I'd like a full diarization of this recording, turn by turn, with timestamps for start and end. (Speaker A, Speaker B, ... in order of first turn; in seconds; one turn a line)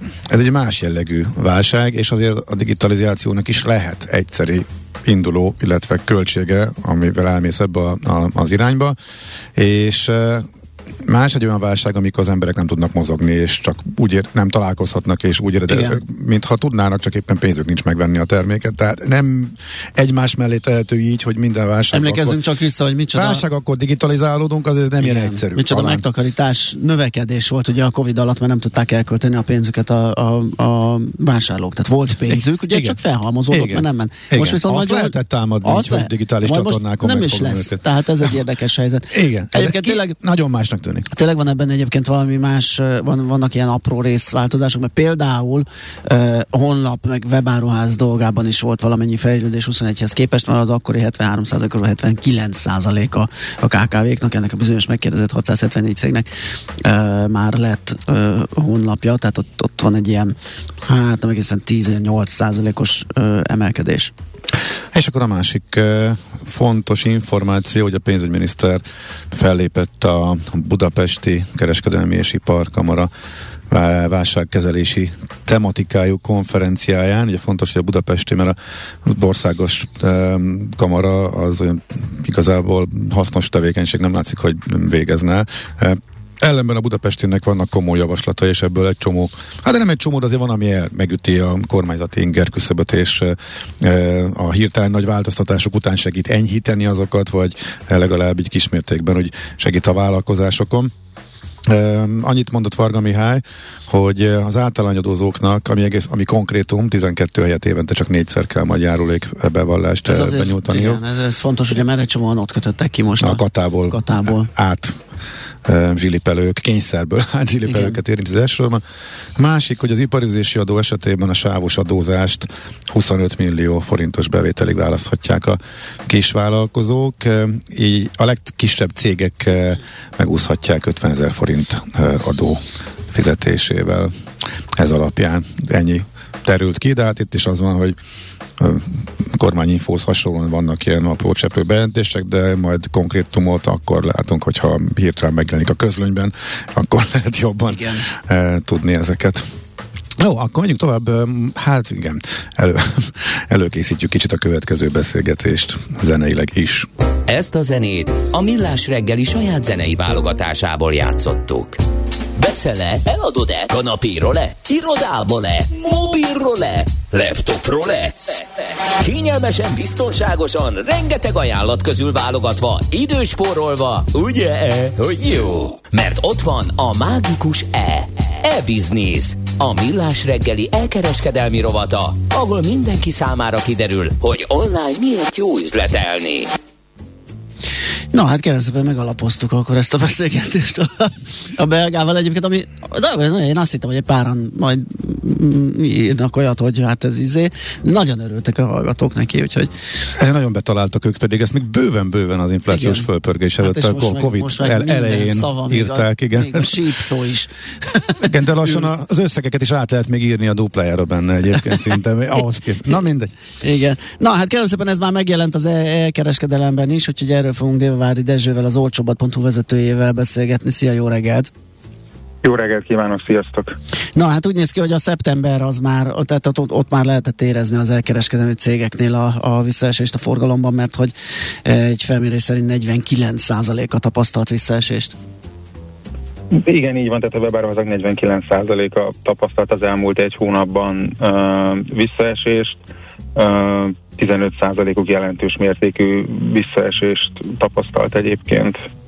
Speaker A: 0.3-9.0
Speaker A: 9.5-10.5
Speaker A: 11.0-22.4
Speaker B: 15.7-16.0
Speaker B: 21.9-23.4
Speaker A: 23.1-26.0
Speaker B: 25.0-40.1
Speaker A: 32.3-33.0
Speaker A: 33.5-37.8
Speaker A: 39.1-41.1
Speaker B: 41.1-56.3
Speaker B: 56.8-64.1
Speaker A: 64.9-73.1
Speaker A: 73.7-100.9
Speaker A: 101.7-111.0
Speaker B: 110.0-114.5
Speaker A: 113.2-115.0
Speaker A: 115.6-118.8
Speaker B: 117.6-118.0
Speaker A: 119.3-134.1
Speaker A: 134.8-138.0
Speaker A: 138.6-149.4
Speaker B: 147.7-148.1
Speaker A: 150.2-156.9
Speaker C: 157.3-161.8
Speaker C: 162.4-186.5
Speaker B: 188.1-199.7
Speaker A: 200.2-206.8
Speaker B: 202.7-203.1
Speaker B: 203.6-208.9
Speaker A: 208.2-213.3
Speaker B: 213.6-221.5
Speaker D: 222.4-223.7
Speaker B: 224.1-231.1
Speaker B: 231.6-235.2
Speaker D: 236.5-242.8
Speaker D: 243.3-248.8